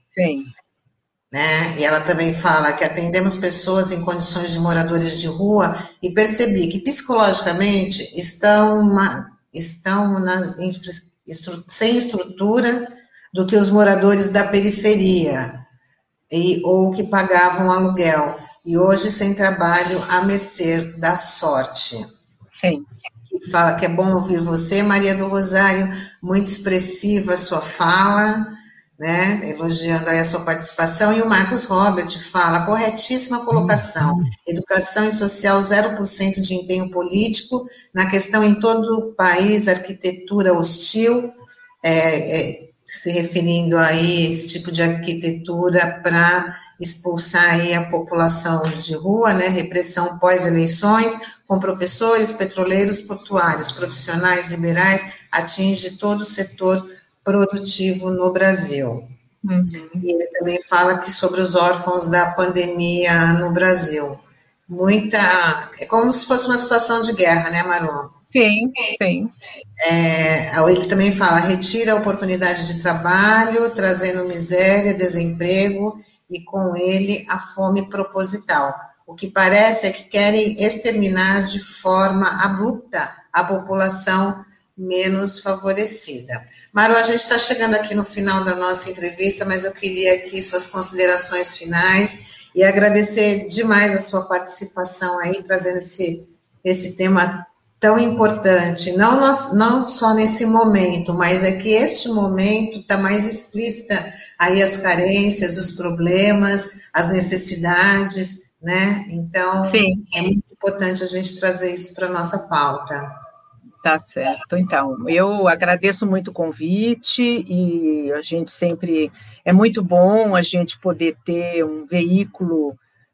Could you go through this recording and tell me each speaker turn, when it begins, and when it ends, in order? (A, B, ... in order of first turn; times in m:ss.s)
0:00.1-0:00.5 A
0:01.3-0:15.6 B
0:16.3-0:22.1 B
0:22.6-0:22.9 A
0:23.3-0:59.1 B
0:59.4-1:00.0 A
1:00.0-1:08.1 B
1:08.3-1:09.3 A
1:09.8-1:53.1 B
1:49.6-1:50.1 A
1:53.8-2:02.8 A